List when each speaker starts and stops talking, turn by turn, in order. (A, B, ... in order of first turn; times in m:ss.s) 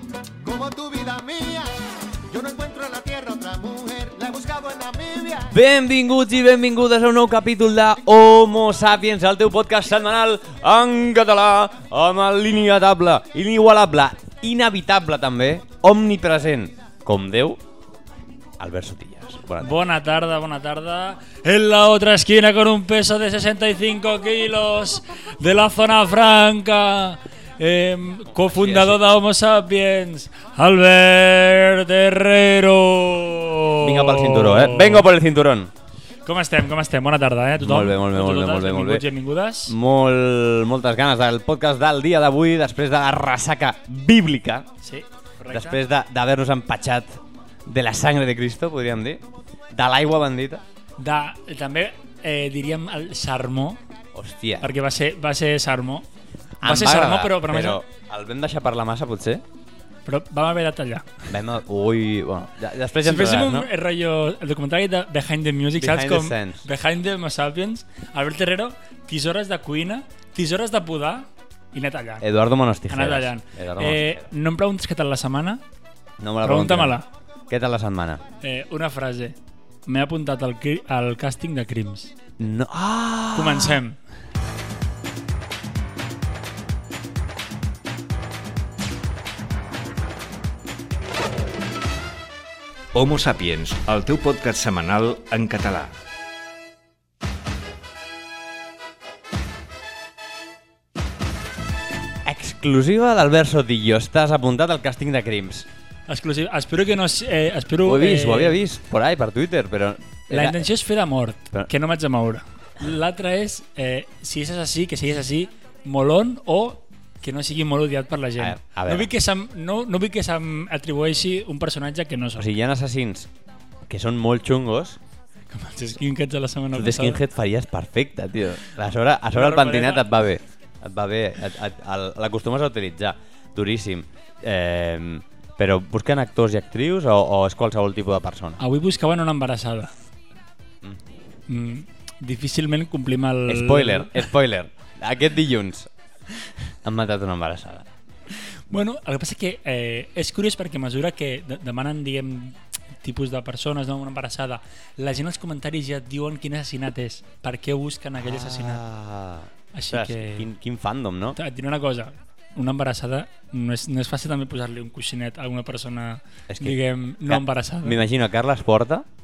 0:00.4-0:01.7 A
0:02.3-0:05.5 A
0:05.5-0:17.6 B
0:18.6-0:19.7 B
0:19.6-0:35.1 C
0:28.3-0:29.0 B
0:33.8-0:35.7 B
0:36.2-0:39.8 C
0:37.6-0:39.0 B
0:39.7-0:44.7 B
0:44.8-0:45.8 C
0:45.5-0:50.6 B
0:51.0-0:53.8 C
0:54.1-0:54.7 B
0:54.6-0:56.1 C
0:56.6-0:59.4 B
0:56.6-0:57.8 C
1:00.1-1:01.3 C
1:01.3-1:03.7 B
1:03.0-1:12.3 C
1:05.8-1:06.6 B
1:12.2-1:14.3 B
1:12.9-1:15.6 C
1:16.2-1:16.9 B
1:16.4-1:17.1 C
1:17.5-1:18.2 B
1:18.4-1:22.1 C
1:22.4-1:23.8 B
1:23.3-1:24.0 C
1:32.9-1:35.9 D
1:42.2-1:45.7 B
1:46.1-1:48.6 C
1:47.8-1:50.7 B
1:50.3-2:02.5 C
1:58.4-1:59.1 B
2:02.4-2:03.3 B
2:03.9-2:05.0 B
2:05.5-2:07.2 C
2:06.7-2:18.6 B
2:09.3-2:10.1 C
2:18.6-2:20.0 C
2:21.5-2:24.2 C
2:23.5-2:25.9 B
2:26.8-2:27.9 B
2:28.4-2:38.8 C
2:38.2-2:41.4 B
2:39.7-2:40.5 C
2:41.4-2:48.0 C
2:46.5-2:49.1 B